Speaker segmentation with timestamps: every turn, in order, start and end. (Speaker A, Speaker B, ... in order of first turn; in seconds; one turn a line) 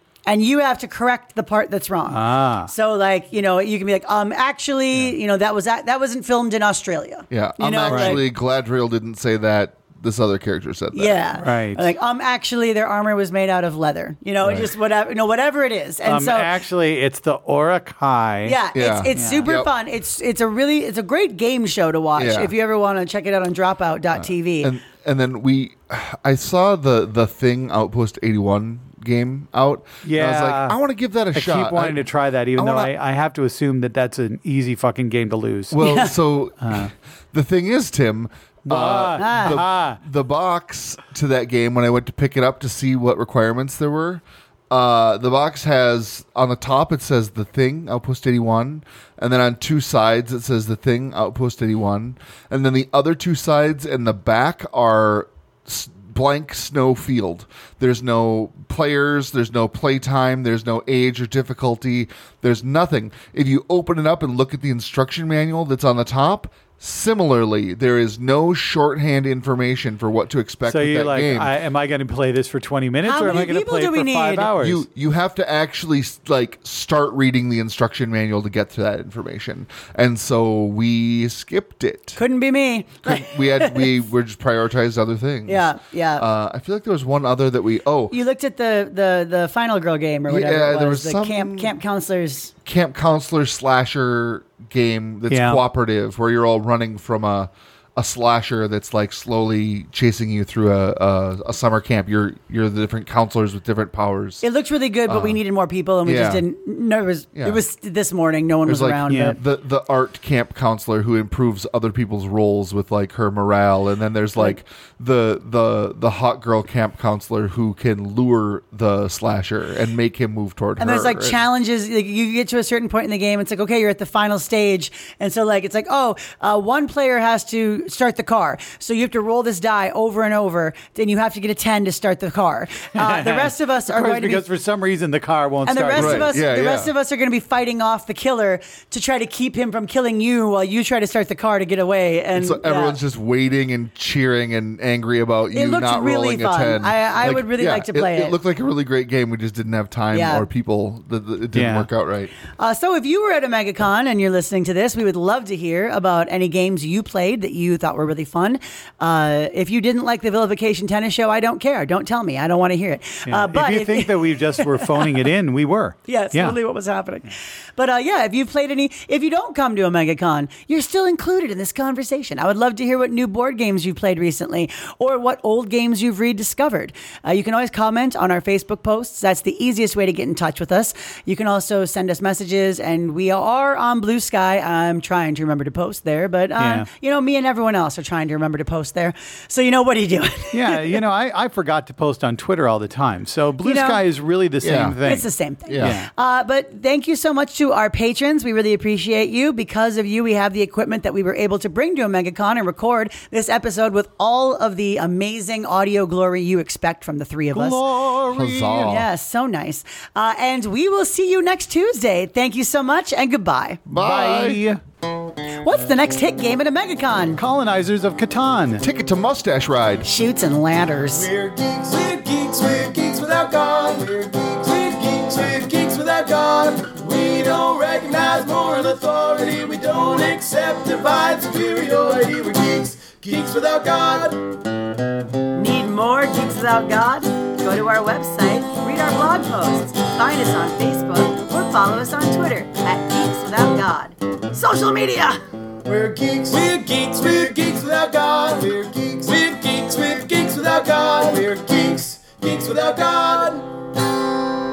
Speaker A: 0.3-8.2
Speaker B: 2.1-2.7
Speaker C: 7.3-11.2
Speaker B: 7.9-8.2
Speaker A: 10.9-16.5
Speaker B: 11.4-11.9
Speaker B: 16.1-18.6
Speaker A: 18.4-24.7
Speaker C: 18.8-19.7
Speaker B: 19.1-19.5
Speaker C: 22.2-22.5
Speaker C: 24.2-32.0
Speaker B: 30.0-30.8
Speaker B: 31.3-35.9
Speaker C: 32.6-32.9
Speaker C: 35.7-71.5
Speaker A: 35.8-36.1
Speaker B: 36.6-36.9
Speaker B: 38.7-40.0
Speaker A: 39.2-39.6
Speaker B: 70.7-74.8
Speaker A: 73.0-74.5
Speaker C: 74.6-82.2
Speaker A: 82.2-83.9
Speaker C: 83.0-88.2
Speaker A: 85.5-86.2
Speaker A: 88.1-92.5
Speaker C: 90.3-91.7
Speaker C: 92.7-104.4
Speaker B: 95.3-95.6
Speaker A: 104.4-109.4
Speaker C: 105.1-105.4
Speaker C: 106.0-106.4
Speaker C: 107.3-107.6
Speaker C: 108.7-121.4
Speaker B: 109.1-109.4
Speaker A: 120.8-134.4
Speaker B: 132.9-136.3
Speaker A: 135.7-143.0
Speaker C: 135.9-136.9
Speaker C: 142.3-152.3
Speaker A: 145.5-148.3
Speaker A: 150.1-150.5
Speaker B: 151.5-151.9
Speaker A: 152.5-165.2
Speaker B: 163.3-166.6
Speaker A: 166.1-191.0
Speaker B: 186.6-186.9
Speaker B: 190.5-195.3
Speaker A: 193.6-194.0
Speaker C: 194.6-195.0
Speaker A: 195.0-207.8
Speaker C: 195.7-196.0
Speaker B: 195.8-196.1
Speaker B: 207.5-209.1
Speaker C: 208.3-209.1
Speaker A: 208.8-213.8
Speaker C: 213.9-214.6
Speaker B: 213.9-214.8
Speaker A: 215.6-217.4
Speaker B: 217.4-218.8
Speaker C: 218.8-220.1
Speaker A: 220.0-221.3
Speaker D: 221.1-234.6
Speaker A: 235.6-245.4
Speaker D: 245.8-254.0